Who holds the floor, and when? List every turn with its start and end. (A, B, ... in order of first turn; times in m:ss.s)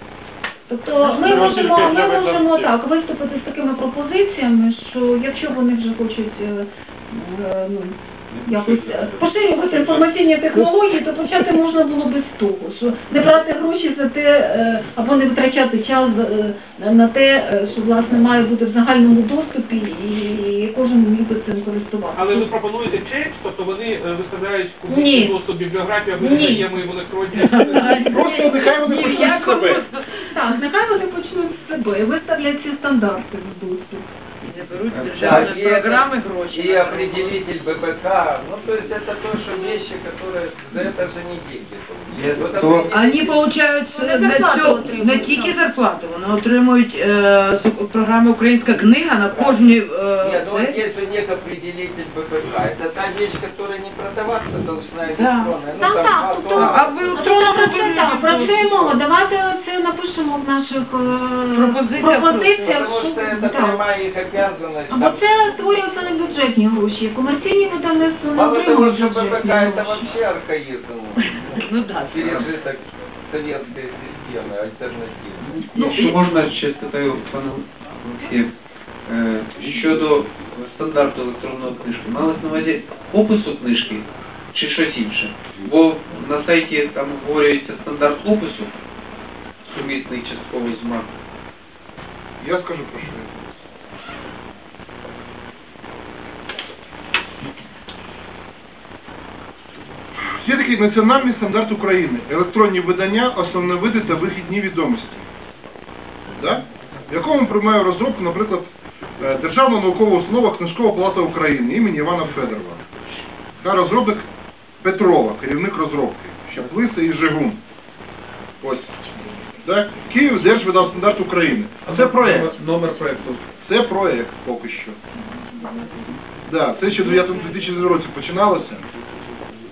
0:00.7-0:22.5 A
0:01.2-0:02.7 B
0:08.5-0:09.0 B
0:22.1-0:27.9 B
0:24.9-0:25.4 A
0:26.2-0:26.7 A
0:27.3-0:30.3 C
0:27.6-0:34.0 A
0:28.0-0:29.8 D
0:34.4-0:37.4 C
0:34.9-0:35.5 E
0:35.2-0:43.5 F
0:42.1-0:42.9 E
0:42.6-0:50.8 C
0:43.9-0:45.8 A
0:48.7-0:57.2 F
0:55.2-0:55.6 C
0:55.7-1:03.8 A
0:56.5-0:59.0 C
1:01.5-1:02.8 C
1:02.6-1:05.3 F
1:04.9-1:10.1 A
1:08.3-1:15.6 F
1:11.2-1:12.4 C
1:15.4-1:18.5 E
1:15.7-1:16.1 A
1:19.0-1:28.7 E
1:29.7-1:31.1 E
1:32.4-1:33.4 D
1:40.3-1:45.2 D
1:46.3-1:52.8 D
1:53.6-1:54.3 D
1:54.8-1:57.6 D
1:58.6-1:58.9 D
1:59.6-2:02.6 D
2:01.9-2:02.4 B
2:02.4-2:03.4 E
2:03.5-2:05.0 D
2:06.4-2:08.9 D